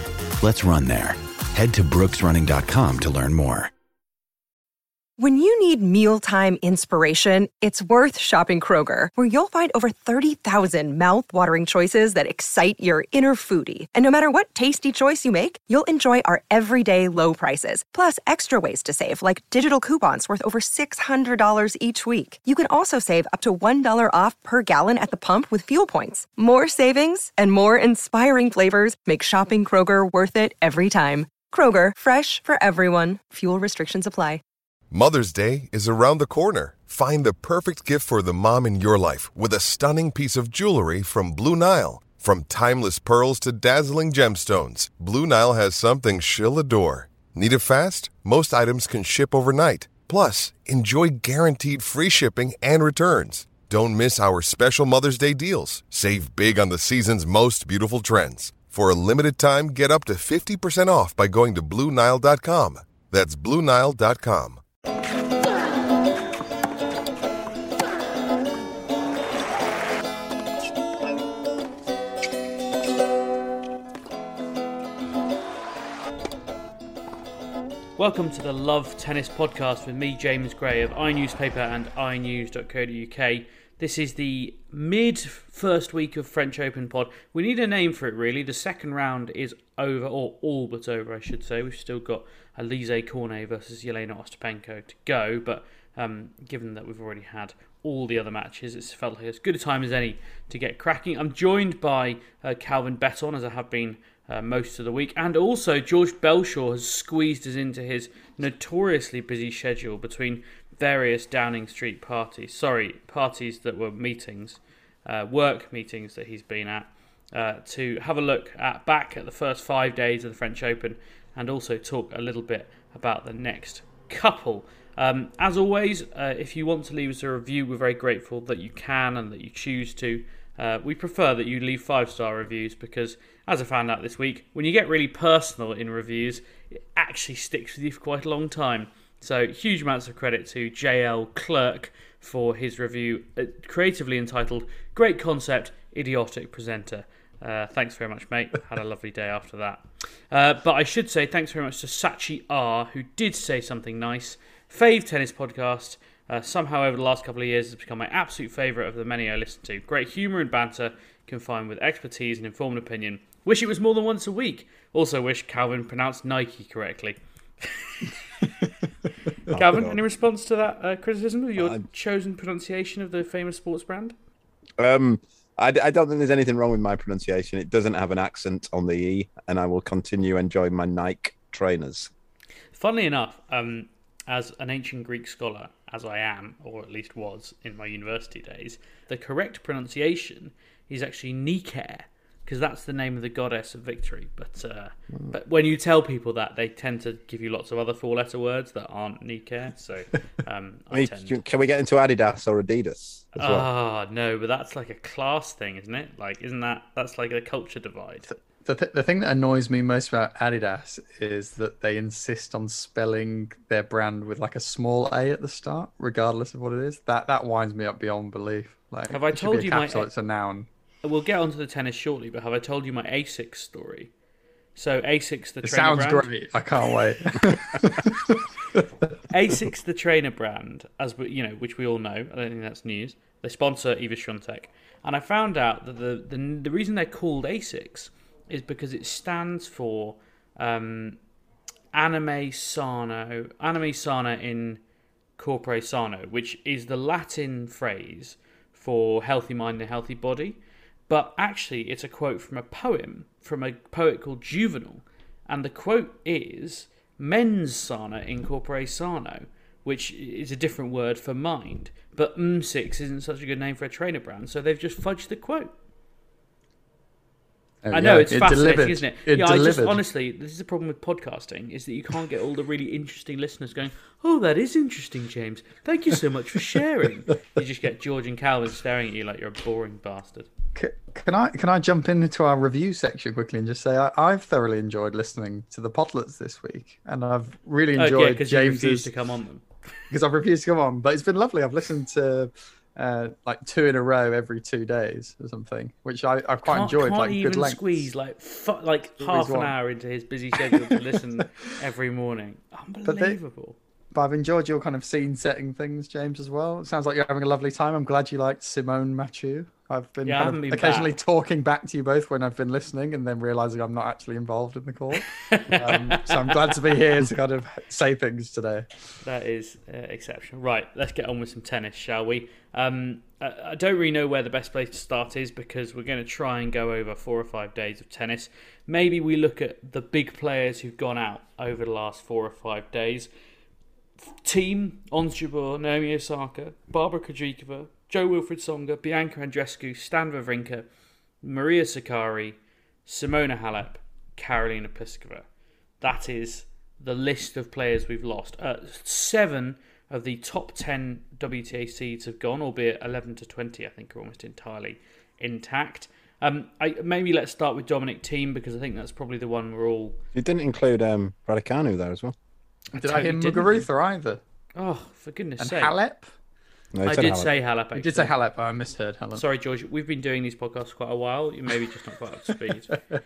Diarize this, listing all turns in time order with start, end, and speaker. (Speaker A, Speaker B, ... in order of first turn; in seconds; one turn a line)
Speaker A: 0.4-3.7
Speaker B: 5.2-34.4
Speaker C: 34.9-64.6
Speaker D: 78.0-168.5
Speaker D: 169.5-174.1
Speaker E: 169.5-170.0
Speaker E: 171.6-171.8
Speaker E: 174.8-182.1
Speaker D: 182.7-201.4
Speaker E: 200.9-203.7
Speaker D: 203.3-208.3
Speaker F: 208.3-220.7
Speaker D: 219.1-220.1
Speaker D: 221.0-224.1
Speaker D: 224.8-226.3
Speaker F: 225.6-228.8
Speaker D: 229.3-241.2
Speaker D: 241.9-244.8
Speaker D: 245.4-265.7
Speaker D: 267.9-280.5
Speaker F: 267.9-270.0
Speaker F: 280.7-289.1
Speaker D: 287.9-289.6
Speaker F: 290.1-298.1
Speaker D: 296.6-303.8
Speaker F: 299.2-299.7
Speaker F: 300.6-301.4
Speaker F: 303.0-303.4
Speaker F: 304.1-318.9
Speaker D: 310.2-311.1
Speaker D: 315.4-316.9
Speaker D: 319.2-333.3
Speaker D: 334.3-340.9
Speaker D: 341.4-345.4
Speaker D: 346.0-360.2
Speaker E: 360.3-362.3
Speaker F: 362.9-364.4
Speaker D: 363.0-363.8
Speaker D: 364.8-365.9
Speaker F: 365.6-366.3
Speaker E: 366.9-367.5
Speaker D: 367.0-368.3
Speaker F: 367.9-369.4
Speaker D: 369.3-373.0